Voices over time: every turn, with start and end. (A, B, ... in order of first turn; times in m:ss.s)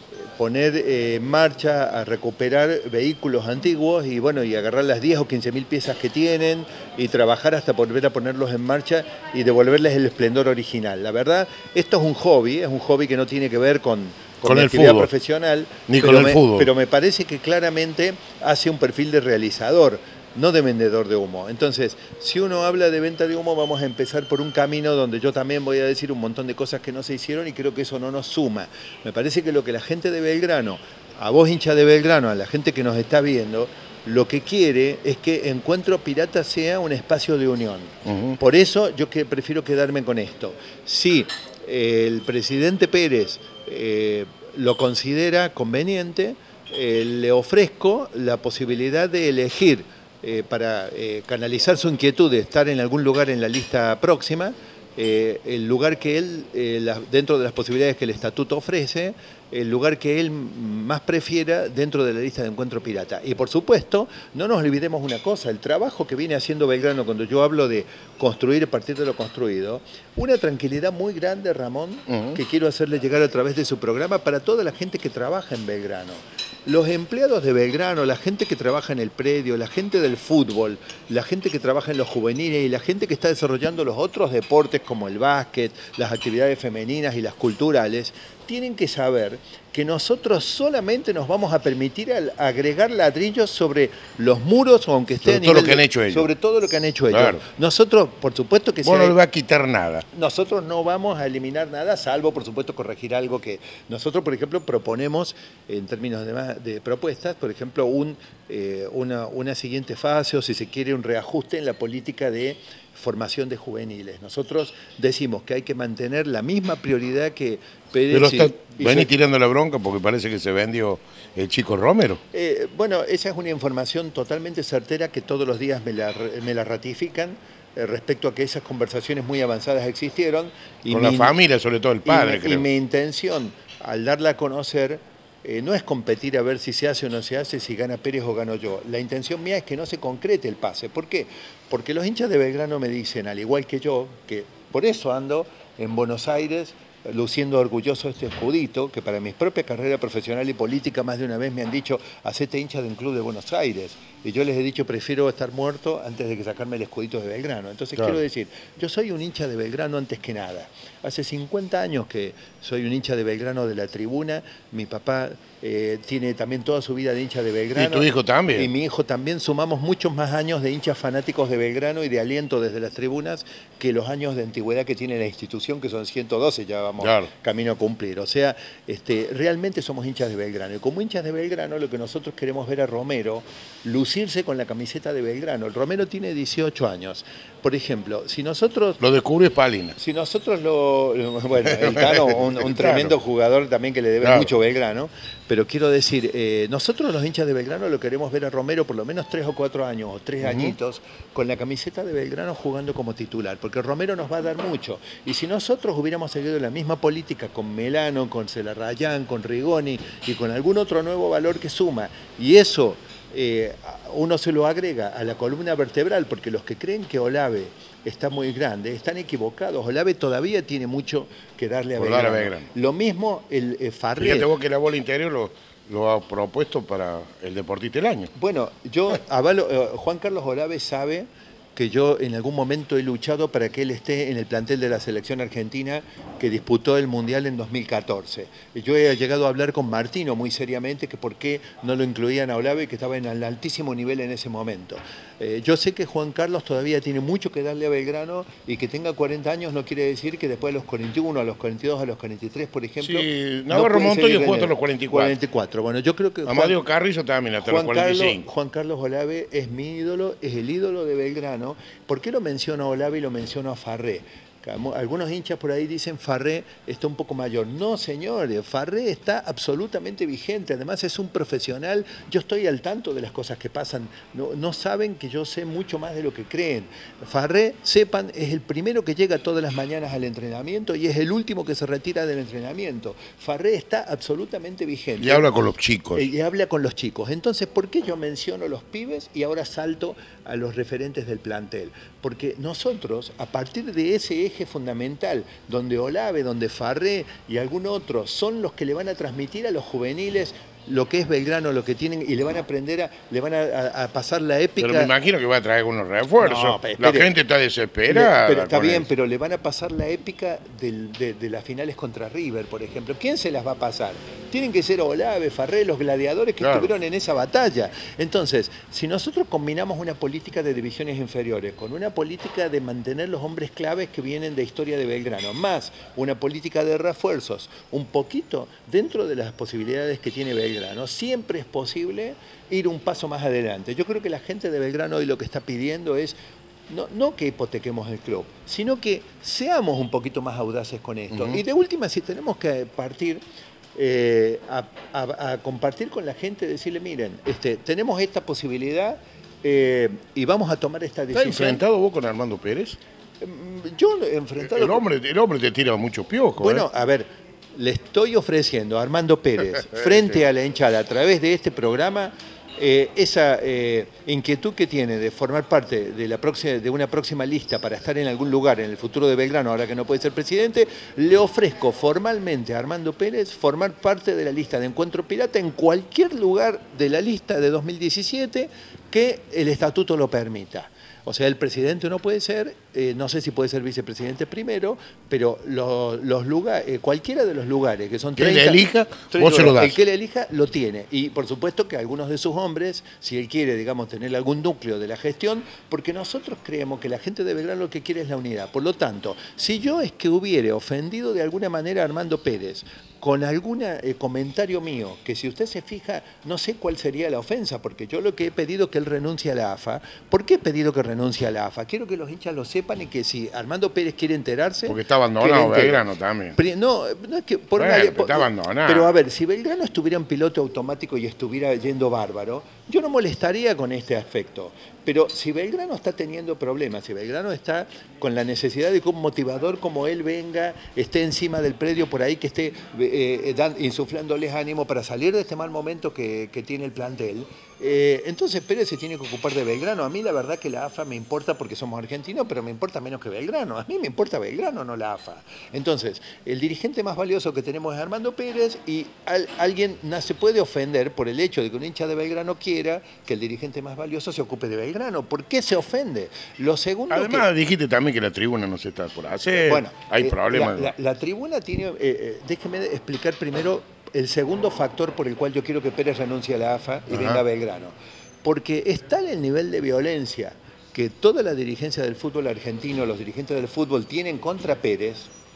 0:00.2-1:39.2 A
0:14.4-0:15.1 B
0:15.9-0:16.7 B
0:38.1-0:38.4 B
1:12.1-1:12.4 B
1:35.2-1:36.3 B
1:37.1-1:37.4 B
1:38.8-1:40.0 B
1:40.1-1:59.1 A
1:58.1-2:02.2 B
2:02.3-2:11.3 A
2:10.9-2:12.6 B
2:12.0-3:09.0 A
2:47.8-2:48.7 B
2:57.0-2:57.3 B
3:09.0-3:10.0 B
3:10.0-3:44.5 A
3:11.7-3:13.2 B
3:14.2-3:14.5 B
3:20.4-3:20.8 B
3:42.0-3:42.7 B
3:44.2-3:48.3 B
3:48.4-4:16.8 A
4:13.0-4:15.3 B
4:16.5-4:18.4 B
4:17.6-4:45.5 A
4:45.2-4:46.3 B
4:46.1-5:05.1 A
5:04.8-5:09.1 B
5:06.4-5:07.3 A
5:08.1-5:36.4 A
5:16.6-5:16.9 B
5:36.9-5:43.4 A
5:41.3-5:41.6 B
5:44.0-5:51.8 A
5:51.3-5:53.0 B
5:53.4-5:55.0 A
5:54.7-5:56.9 B
5:56.6-7:37.5 A
6:00.0-6:00.2 B
6:28.4-6:29.9 B
6:54.9-6:56.6 B
6:57.8-6:59.1 B
7:37.1-7:40.9 B
7:39.6-7:55.3 A
7:47.1-7:47.4 B